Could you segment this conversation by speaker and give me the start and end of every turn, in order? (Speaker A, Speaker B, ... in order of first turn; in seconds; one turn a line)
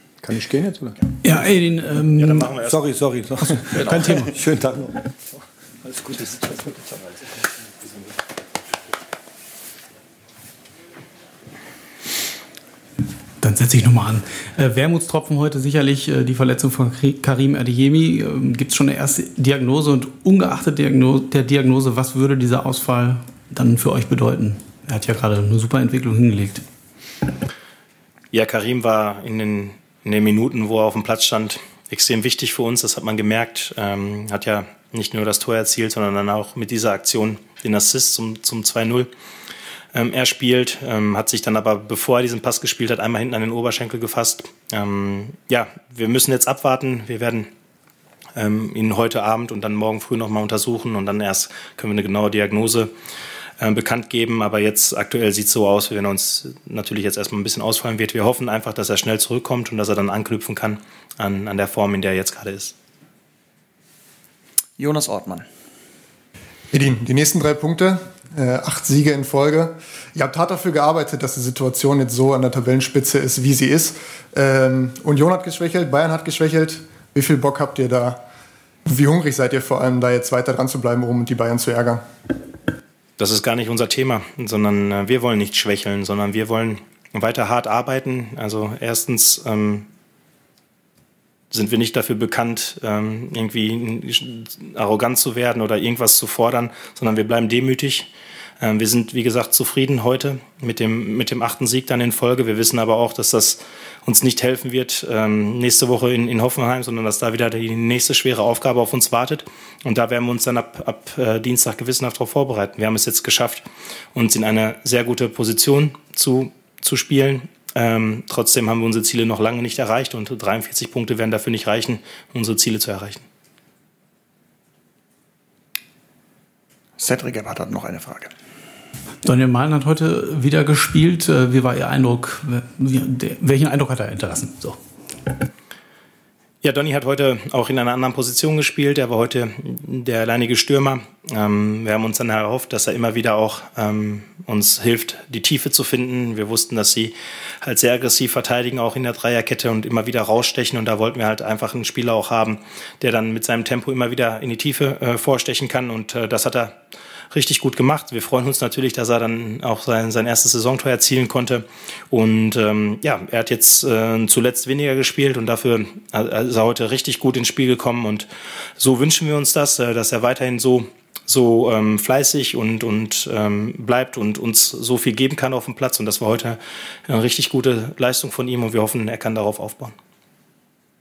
Speaker A: 0.2-1.0
Speaker B: 1.2-2.6
Speaker C: 2.2-2.8
Speaker A: 2.6-5.1
Speaker B: 3.6-4.3
Speaker A: 5.9-6.8
Speaker B: 13.4-26.6
Speaker C: 28.3-39.1
Speaker C: 39.9-47.5
Speaker C: 48.4-52.9
Speaker C: 53.6-62.8
Speaker D: 64.8-65.5
Speaker E: 66.7-78.2
Speaker E: 78.9-82.0
Speaker C: 83.2-89.9
Speaker C: 91.5-98.1
Speaker C: 98.6-123.2
Speaker D: 127.0-128.3
Speaker B: 129.2-134.8
Speaker C: 136.6-156.8
Speaker C: 157.3-179.9